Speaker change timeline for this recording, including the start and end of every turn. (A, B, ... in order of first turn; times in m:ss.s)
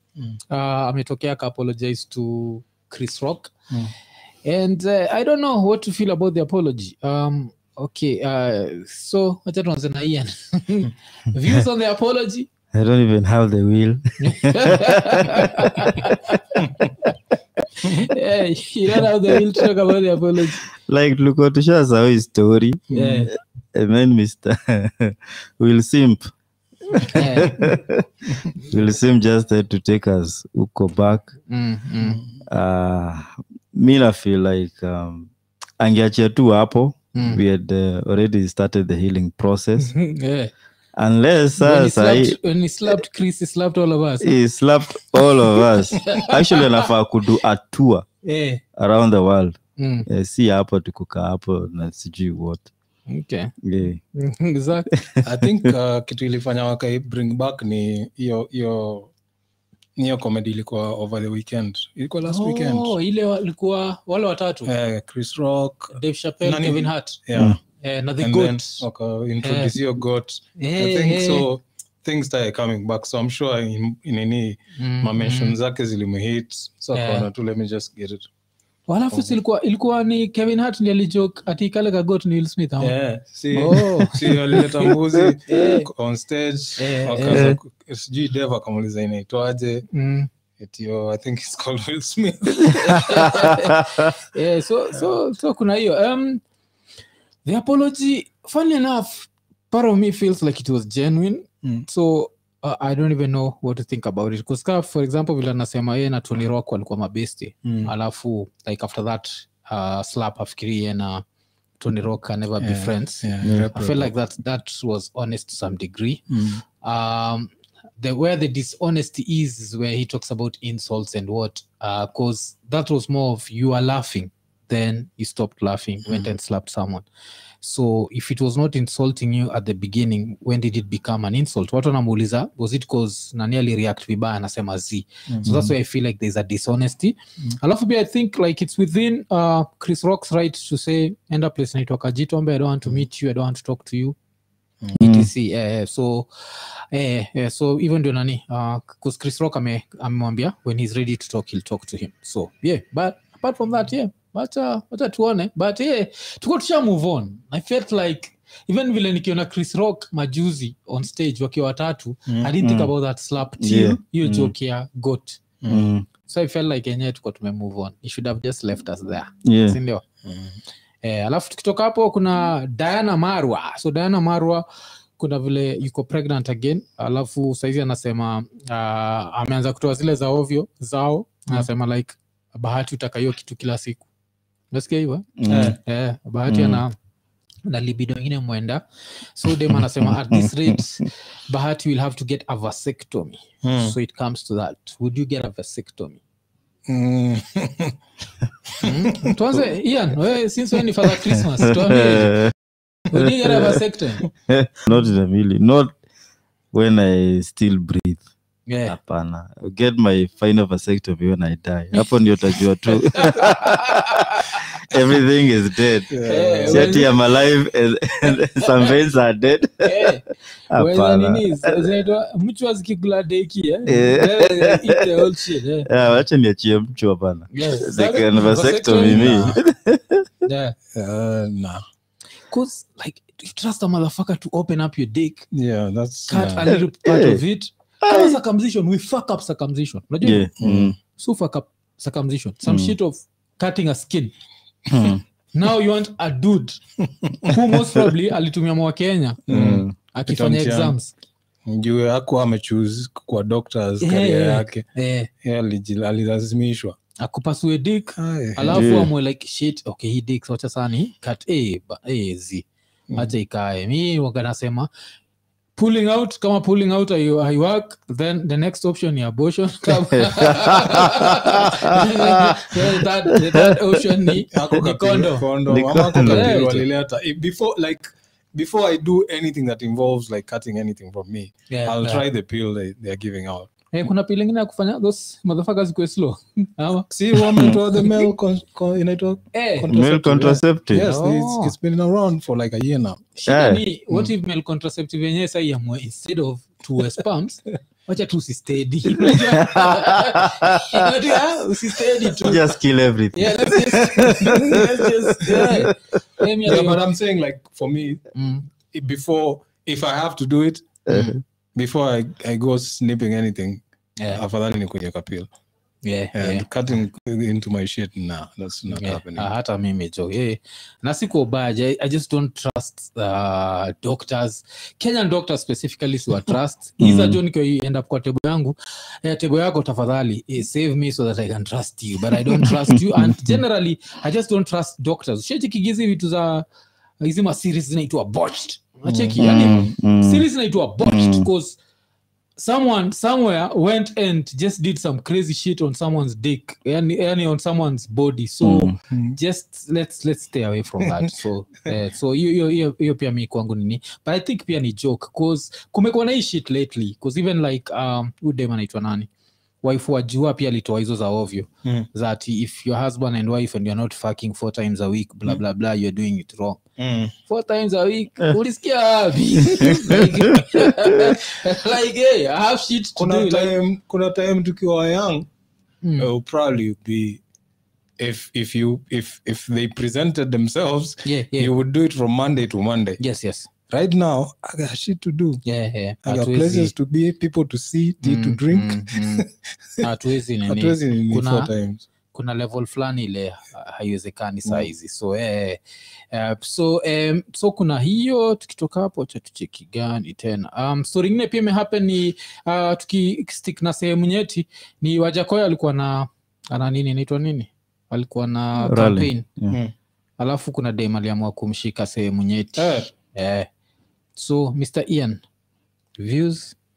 0:00.5-0:03.5 A
0:04.4-0:12.5 A
0:12.7-0:16.4 B
0:14.2-0:17.2 A
0:17.8-0:20.6 A
0:20.7-0:23.0 B
0:22.9-0:23.3 A
0:22.9-0:23.2 C
0:23.7-0:26.3 B
0:26.9-0:31.3 B
0:27.1-0:27.8 A
0:31.5-0:32.2 A
0:32.0-0:32.4 C
0:32.5-0:39.9 B
0:37.1-0:37.4 A
0:39.9-0:40.5 A
0:41.0-0:42.4 B
0:41.6-0:44.3 A
0:44.2-0:48.1 B
0:45.5-0:46.9 A
0:48.2-0:48.6 A
0:48.8-0:52.7 B
0:49.8-0:50.1 A
0:53.1-0:53.5 A
0:53.6-0:54.0 B
0:54.1-0:54.9 A
0:55.2-0:59.1 C
1:00.0-1:03.0 C
1:02.3-1:04.7 A
1:04.7-1:07.6 C
1:06.0-1:07.2 A
1:07.8-1:08.9 A
1:08.2-1:18.3 C
1:09.4-1:09.7 A
1:10.6-1:11.5 A
1:14.8-1:15.6 A
1:16.9-1:17.3 A
1:18.9-1:22.9 A
1:19.1-1:19.4 C
1:22.8-1:29.9 C
1:23.5-1:24.9 A
1:25.5-1:25.9 A
1:26.8-1:27.5 A
1:27.3-1:27.6 B
1:29.9-1:30.3 A
1:30.6-1:33.5 C
1:32.8-1:36.4 A
1:37.4-1:51.2 A
1:47.6-1:47.9 C
1:51.8-1:56.2 A
1:52.6-1:54.1 C
1:53.4-1:53.7 B
1:56.3-1:56.6 C
1:56.8-2:07.0 A
2:07.6-2:24.2 A
2:15.5-2:15.7 B
2:25.0-2:45.4 A
2:25.0-2:25.3 B
2:42.6-2:42.9 B
2:43.6-2:44.5 B
2:45.6-2:46.0 C
2:45.7-2:46.1 B
2:46.3-2:50.0 A
2:49.4-2:49.8 B
2:50.2-2:50.5 C
2:51.0-2:54.6 A
2:55.2-3:04.1 A
3:04.7-3:06.9 A
3:05.4-3:05.8 B
3:05.5-3:05.8 C
3:06.5-3:06.8 B
3:07.7-3:16.2 A
3:09.7-3:11.0 B
3:13.6-3:14.0 C
3:16.9-3:18.0 C
3:18.7-3:19.4 C
3:18.8-3:22.5 A
3:21.6-3:22.5 B
3:23.1-3:24.3 A
3:23.2-3:23.8 B
3:24.5-3:26.0 B
3:26.7-3:28.2 B
3:28.7-3:29.0 A
3:28.9-3:36.1 B
3:32.9-3:34.7 A
3:36.1-3:37.0 C
3:36.3-3:37.2 A
3:36.7-3:40.1 B
3:38.3-3:39.0 A
3:39.8-3:46.1 A
3:40.7-3:41.9 B
3:43.9-3:45.0 B
3:45.9-3:50.3 B
3:47.5-3:49.6 A
3:49.0-3:49.6 C
3:50.4-3:50.8 A
3:50.9-3:51.8 C
3:52.5-3:55.5 A
3:55.5-3:56.6 C
3:56.3-4:00.5 A
3:56.6-3:57.4 B
3:58.0-3:58.4 B
4:00.2-4:01.0 B
4:00.6-4:01.0 C
4:01.1-4:04.3 A
4:02.7-4:03.0 B
4:04.9-4:05.2 B
4:05.0-4:06.8 A
4:07.4-4:11.1 A
4:09.5-4:11.0 C
4:09.5-4:09.9 B
4:11.7-4:14.9 C
4:14.0-4:15.3 A
4:15.4-4:17.0 C
4:17.2-4:22.6 A
4:18.2-4:19.1 C
4:18.7-4:19.1 B
4:23.2-4:24.9 A
4:25.8-4:35.5 A
4:30.2-4:33.8 B
4:34.5-4:43.7 C
4:35.7-4:36.8 B
4:36.2-4:36.8 A
4:41.7-4:42.2 A
4:43.9-4:47.7 A
4:47.1-4:53.2 C
4:49.5-4:49.9 A
4:49.9-4:51.0 B
4:51.0-4:51.7 A
4:53.4-5:02.6 A
4:53.5-4:53.8 B
4:59.2-5:01.0 B
5:01.9-5:02.4 C
5:02.4-5:05.9 B
5:03.3-5:07.0 A
5:04.3-5:04.8 C
5:05.4-5:05.7 C
5:06.7-5:08.2 C
5:08.4-5:08.6 A
5:08.9-5:11.0 C
5:11.1-5:11.4 B
5:11.1-5:11.4 A
5:11.8-5:13.8 C
5:14.3-5:15.5 C
5:16.0-5:16.7 A
5:16.3-5:19.5 C
5:18.9-5:36.6 A
5:27.0-5:27.4 B
5:32.6-5:33.6 B
5:37.2-5:41.8 A
5:39.1-5:39.9 C
5:39.4-5:40.5 B
5:41.0-5:41.5 B
5:42.6-5:59.3 A
5:48.6-5:49.0 B
5:59.8-6:06.8 A
6:07.0-6:07.3 C
6:07.5-6:13.7 A
6:09.6-6:10.9 B
6:13.2-6:15.5 C
6:16.0-6:16.3 A
6:16.2-6:17.4 C
6:18.2-6:23.2 C
6:21.2-6:21.7 A
6:23.2-6:23.7 A
6:23.9-6:25.6 C
6:25.6-6:26.9 A
6:26.2-6:30.1 C
6:28.2-6:29.4 A
6:30.0-6:31.7 A
6:30.7-6:32.0 C
6:32.3-6:35.8 A
6:36.3-6:49.4 A
6:48.8-6:49.8 B
6:50.4-6:53.7 A
6:52.8-6:53.1 C
6:54.4-6:55.4 A
6:56.2-6:56.8 A